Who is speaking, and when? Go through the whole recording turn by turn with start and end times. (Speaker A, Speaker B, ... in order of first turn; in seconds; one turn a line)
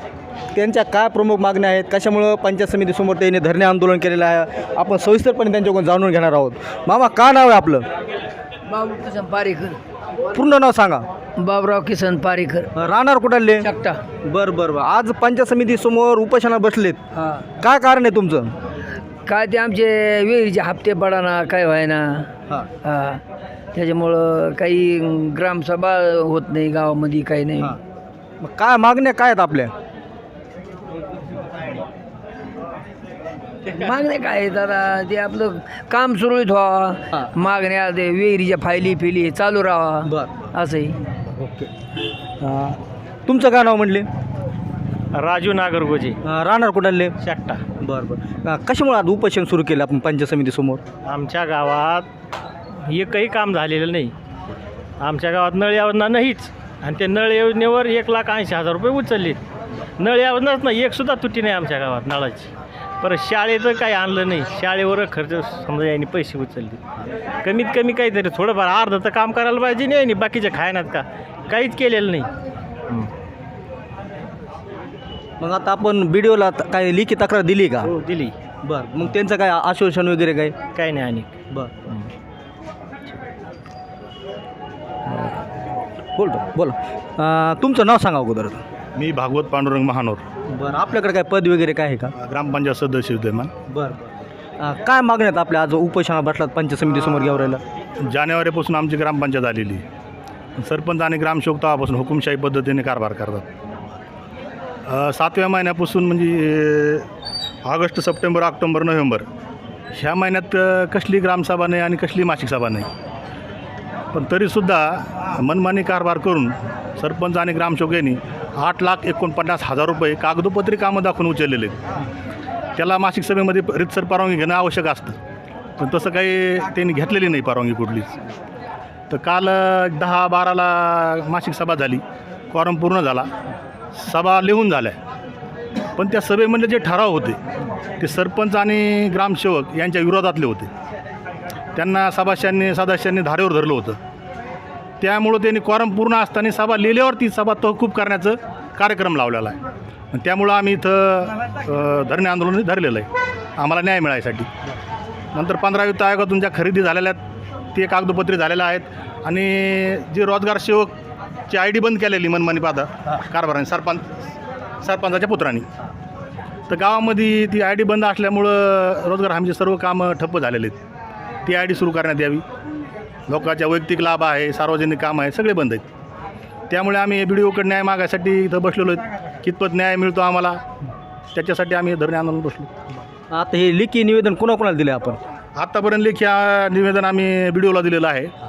Speaker A: 0.5-7.9
Speaker B: 8.7-9.8
Speaker A: 10.3-11.1
Speaker B: 11.4-12.7
Speaker A: 12.7-13.7
Speaker A: 14.2-17.0
Speaker A: 17.6-18.5
Speaker B: 19.3-22.2
Speaker B: 22.9-23.2
Speaker B: 23.7-27.6
Speaker A: 28.4-29.7
Speaker B: 33.8-40.0
Speaker A: 40.0-40.5
Speaker B: 40.6-41.0
Speaker A: 41.2-41.7
Speaker A: 42.4-44.1
Speaker C: 45.1-46.2
Speaker A: 46.2-47.1
Speaker C: 47.2-47.6
Speaker A: 47.7-50.8
Speaker C: 51.0-52.1
Speaker C: 52.8-54.1
Speaker C: 55.0-59.4
Speaker C: 60.0-66.8
Speaker C: 67.4-72.3
Speaker A: 75.4-77.9
Speaker C: 78.0-78.3
Speaker A: 78.6-80.5
Speaker C: 80.8-82.1
Speaker A: 81.5-81.7
Speaker A: 85.1-85.4
Speaker A: 86.1-88.6
Speaker D: 89.0-90.2
Speaker A: 90.5-92.1
Speaker D: 92.1-93.5
Speaker A: 93.7-97.6
Speaker D: 98.0-99.8
Speaker D: 100.6-103.5
Speaker D: 104.9-107.0
Speaker D: 107.6-109.2
Speaker D: 109.9-112.9
Speaker D: 114.1-121.8
Speaker D: 122.8-125.2
Speaker D: 125.8-128.2
Speaker D: 129.1-133.3
Speaker D: 134.0-135.0
Speaker D: 136.0-137.4
Speaker D: 138.0-140.7
Speaker D: 141.7-144.0
Speaker D: 145.0-149.6
Speaker D: 150.1-154.5
Speaker D: 155.3-157.2
Speaker D: 157.7-160.9
Speaker D: 161.5-164.0
Speaker D: 164.8-165.7
Speaker D: 166.7-170.8
Speaker D: 171.4-172.4
Speaker D: 173.3-175.8
Speaker D: 176.7-180.6
Speaker D: 181.3-182.7
Speaker A: 183.3-185.2
Speaker D: 185.6-188.3